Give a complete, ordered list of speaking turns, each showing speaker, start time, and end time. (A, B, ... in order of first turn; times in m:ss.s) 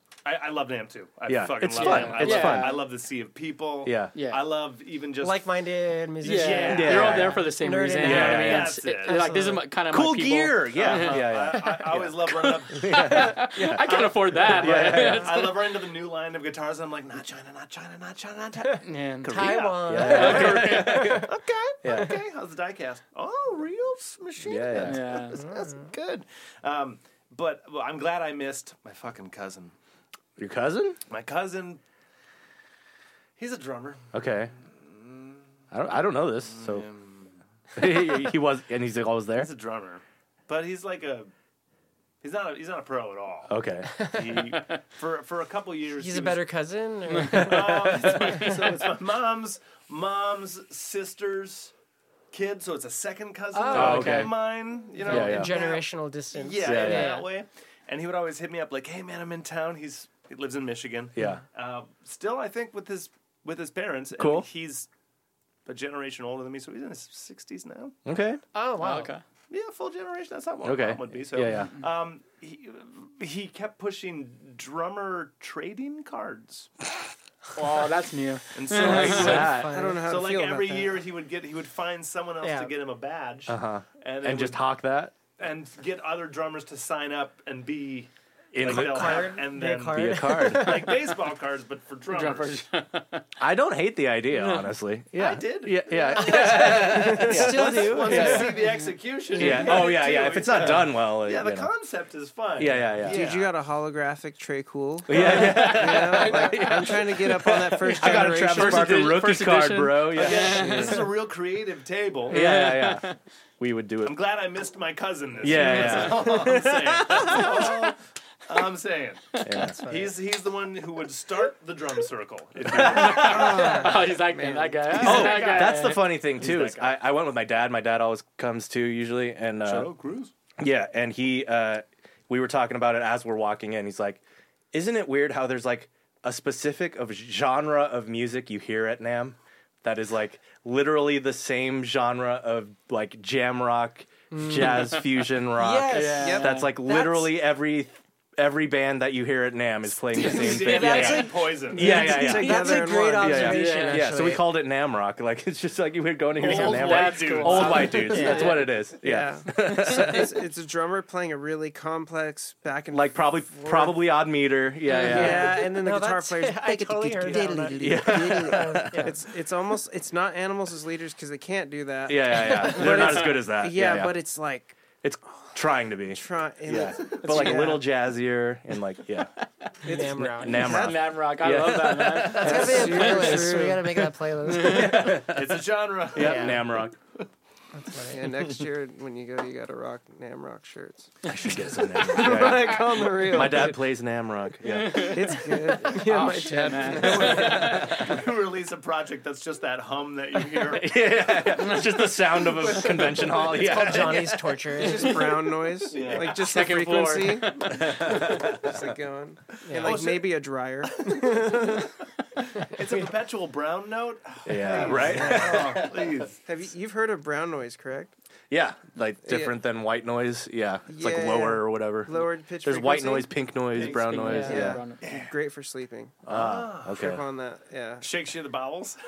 0:00.2-0:05.5 A
0:01.3-0:02.8 B
0:01.8-0:02.8 C
0:03.8-0:04.1 B
0:04.1-0:04.4 C
0:05.2-0:09.6 D
0:06.2-0:15.6 C
0:06.3-0:07.3 A
0:06.7-0:07.4 B
0:08.0-0:08.8 B
0:08.0-0:09.2 A
0:09.9-0:15.3 B
0:10.7-0:29.7 A
0:18.8-0:19.5 C
0:19.3-0:21.3 D
0:19.9-0:21.3 B
0:20.0-0:21.0 C
0:21.8-0:22.2 B
0:24.4-0:25.1 B
0:24.8-0:25.4 C
0:25.3-0:25.9 D
0:30.4-0:31.0 B
0:31.1-0:31.8 A
0:33.4-0:34.0 A
0:34.1-0:34.5 B
0:34.8-0:35.4 A
0:35.7-0:36.9 B
0:36.4-0:37.3 A
0:37.8-0:39.5 B
0:39.4-0:41.3 A
0:42.2-0:43.5 A
0:43.5-0:44.4 B
0:44.0-0:44.2 D
0:44.1-0:46.4 A
0:46.0-0:48.4 D
0:47.2-0:51.7 A
0:47.3-0:48.4 B
0:52.3-0:55.8 A
0:53.5-0:54.2 D
0:53.7-0:54.3 C
0:53.7-0:54.3 B
0:55.0-0:57.3 D
0:55.1-0:55.5 B
0:56.3-1:04.9 A
0:56.6-0:57.2 B
1:01.1-1:01.4 B
1:04.2-1:04.5 B
1:05.6-1:08.0 A
1:08.0-1:08.4 B
1:08.5-1:09.2 D
1:08.8-1:09.2 C
1:09.5-1:16.7 A
1:10.6-1:11.7 B
1:17.5-1:19.5 C
1:18.5-1:24.6 A
1:18.8-1:19.7 B
1:19.3-1:20.0 D
1:19.5-1:21.0 E
1:22.4-1:22.7 D
1:23.5-1:25.1 B
1:25.4-1:32.6 A
1:28.5-1:29.3 B
1:28.6-1:30.9 D
1:29.9-1:30.9 B
1:32.1-1:33.2 C
1:33.4-1:38.6 B
1:34.3-1:34.7 C
1:35.1-1:43.5 A
1:36.1-1:38.8 D
1:39.3-1:41.7 B
1:39.4-1:39.8 D
1:42.6-1:43.2 B
1:43.0-1:49.1 E
1:45.1-1:51.0 B
1:48.0-1:51.1 C
1:50.1-1:52.4 A
1:52.3-1:53.1 B
1:52.3-1:53.2 C
1:53.6-1:54.2 B
1:54.0-2:04.1 A
1:55.4-1:57.4 B
1:55.5-1:56.0 C
1:59.4-1:59.8 B
1:59.6-2:00.1 D
2:02.7-2:03.5 B
2:02.8-2:06.1 C
2:03.2-2:05.2 E
2:03.6-2:03.8 D
2:04.9-2:07.0 A
2:05.0-2:09.9 B
2:09.6-2:10.3 A
2:10.6-2:14.2 B
2:14.7-2:40.4 B
2:24.3-2:25.0 D
2:25.5-2:27.4 D
2:25.9-2:26.7 C
2:30.1-2:32.0 A
2:30.6-2:34.5 D
2:31.0-2:33.6 E
2:33.4-2:34.1 C
2:36.4-2:38.2 A
2:36.4-2:38.7 C
2:37.8-2:38.6 D
2:39.0-2:44.0 E
2:42.9-2:45.6 B
2:44.9-2:49.2 D
2:45.0-2:54.8 E
2:47.8-2:49.1 B
2:52.1-2:54.2 B
2:55.0-2:59.3 B
2:56.0-2:57.8 E
2:59.8-3:00.9 D
2:59.9-3:01.0 E
2:59.9-3:03.6 B
3:00.4-3:03.5 C
3:02.3-3:05.2 D
3:02.3-3:03.8 E
3:04.5-3:07.0 B
3:04.6-3:05.0 C
3:05.0-3:07.2 A
3:06.2-3:06.6 D
3:07.7-3:08.3 D
3:08.1-3:11.1 E
3:11.2-3:15.4 B
3:11.9-3:13.8 E
3:14.7-3:17.9 C
3:15.0-3:17.4 E
3:16.0-3:17.0 D
3:16.8-3:18.1 B
3:17.0-3:21.5 A
3:20.6-3:24.4 B
3:22.4-3:24.2 A
3:23.5-3:25.2 D
3:24.7-3:31.9 E
3:25.9-3:26.5 A
3:26.3-3:28.0 C
3:27.7-3:28.8 B
3:29.6-3:30.0 D
3:29.8-3:30.3 A
3:31.1-3:31.8 A
3:32.4-3:36.4 A
3:34.4-3:36.1 B
3:34.7-3:38.1 E
3:38.5-3:44.8 B
3:39.2-3:39.5 E
3:40.9-3:43.3 E
3:43.7-3:44.2 A
3:43.9-3:45.0 C
3:44.4-3:46.2 E
3:45.0-3:45.3 A
3:46.2-3:47.2 B
3:46.3-3:47.0 A
3:46.9-3:48.1 E
3:48.0-3:49.0 A